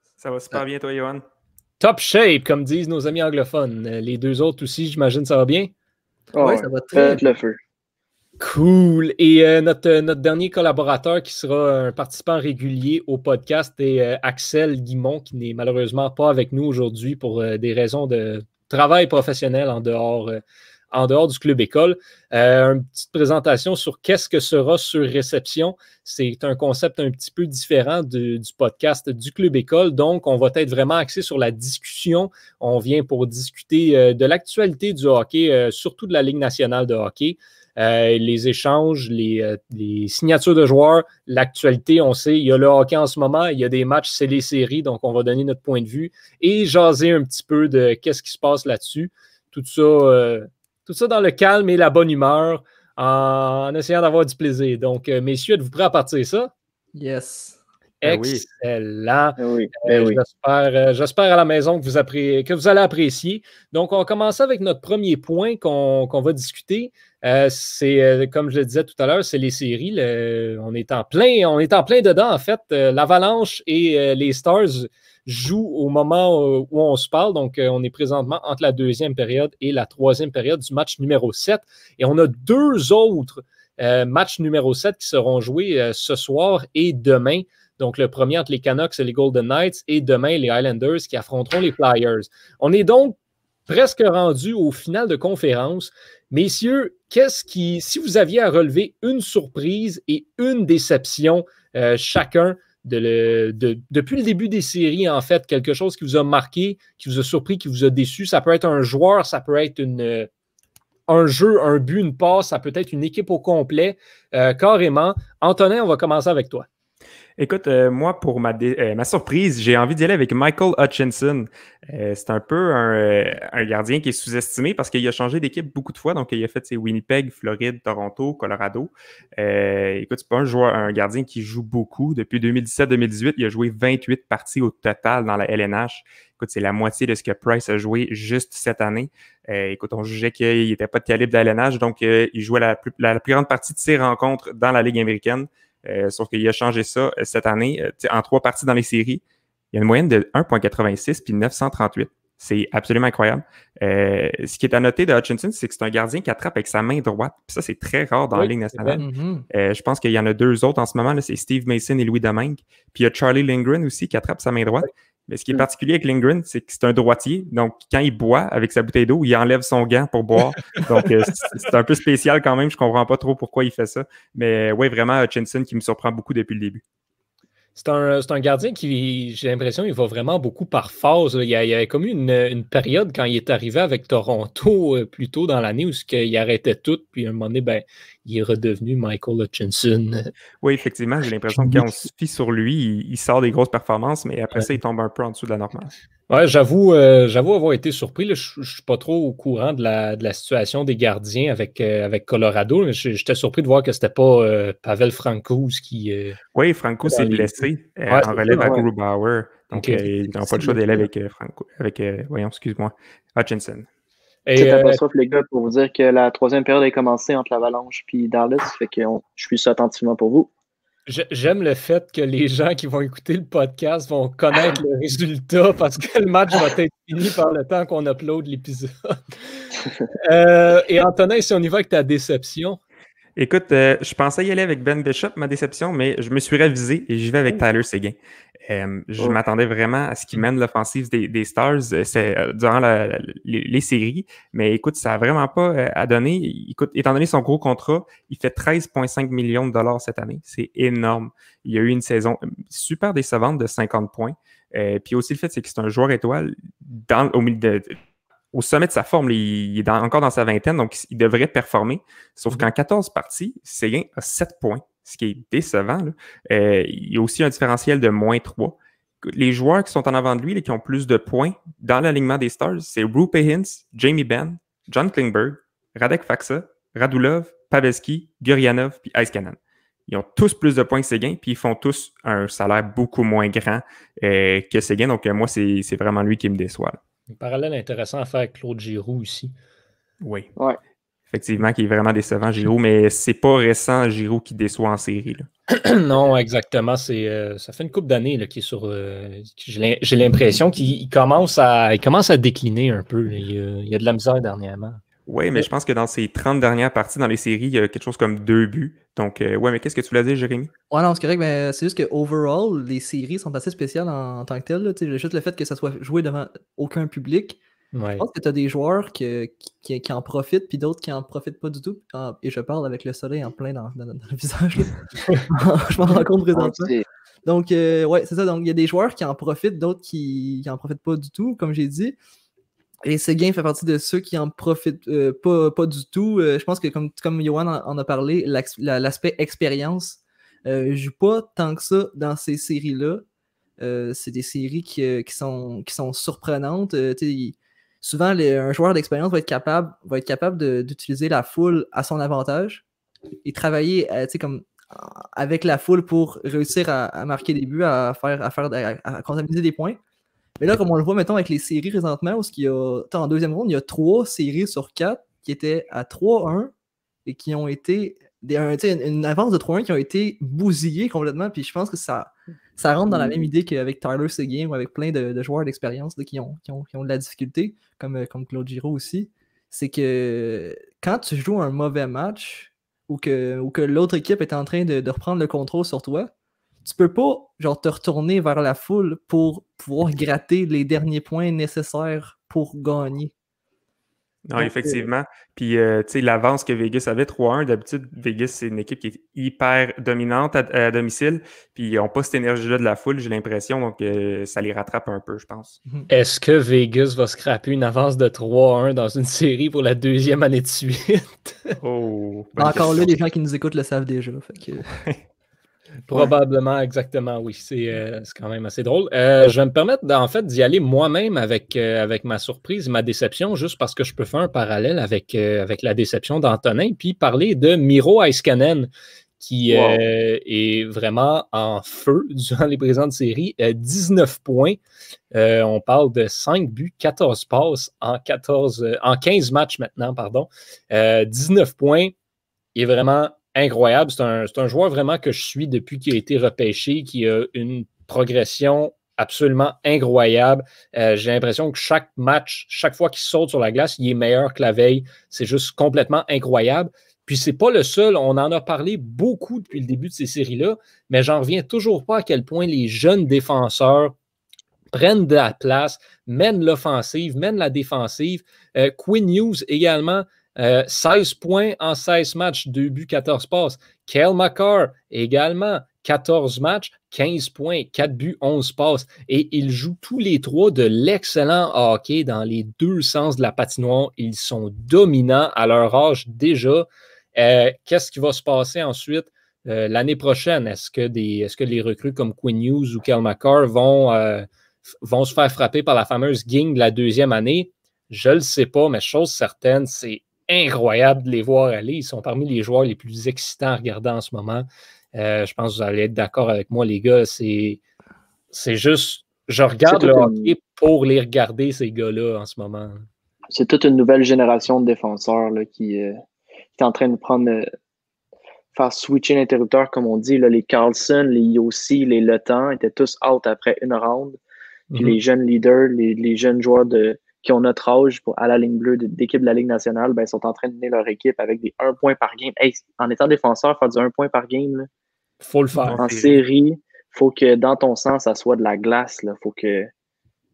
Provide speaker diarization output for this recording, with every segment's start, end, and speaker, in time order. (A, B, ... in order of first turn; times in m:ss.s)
0:00.2-0:01.2 A
0:01.8-0:05.7 B
0:06.3-0:07.6 C
0:06.4-0:07.2 D
0:08.4-0:56.5 B
0:57.0-0:57.6 D
0:58.0-0:58.4 A
0:58.0-1:33.2 B
0:59.4-1:00.2 C
1:33.7-1:50.3 B
1:51.1-1:56.7 B
1:57.4-2:56.8 A
2:38.3-2:39.0 B
2:39.0-2:39.5 D
2:57.8-3:10.3 B
3:10.6-3:15.9 A
3:11.6-3:11.9 B
3:16.3-3:26.4 B
3:26.6-3:33.9 A
3:27.0-3:27.5 B
3:28.1-3:28.8 B
3:28.6-3:28.9 C
3:29.7-3:30.8 B
3:34.5-3:35.0 B
3:34.6-3:40.5 C
3:41.1-3:52.8 B
3:53.4-4:18.0 A
4:18.5-4:47.0 A
4:47.3-4:49.5 B
4:50.2-4:50.5 A
4:51.3-4:55.5 A
4:55.7-5:05.0 B
5:05.3-5:10.7 A
5:10.9-5:17.6 D
5:17.9-5:18.3 B
5:18.2-5:24.9 D
5:25.5-5:26.9 D
5:26.2-5:27.0 C
5:27.4-5:32.2 D
5:33.0-5:43.3 D
5:43.8-5:52.8 D
5:53.4-6:00.0 D
6:00.6-6:06.7 D
6:07.3-6:26.3 D
6:13.1-6:13.5 C
6:26.8-6:33.3 D
6:34.5-6:45.8 A
6:46.1-6:51.8 B
6:51.8-6:53.1 A
6:52.6-6:54.8 D
6:56.1-7:14.8 B
7:09.7-7:10.0 C
7:15.3-7:22.1 B
7:22.8-7:44.2 B
7:44.9-8:14.5 B
8:15.0-8:27.8 B
8:28.5-8:33.0 B
8:29.9-8:30.5 C
8:33.5-8:36.2 C
8:36.8-8:37.7 C
8:38.7-8:44.4 C
8:44.9-8:45.2 B
8:45.0-8:54.9 C
8:55.4-8:56.0 B
8:55.8-8:56.4 A
8:56.0-8:59.9 C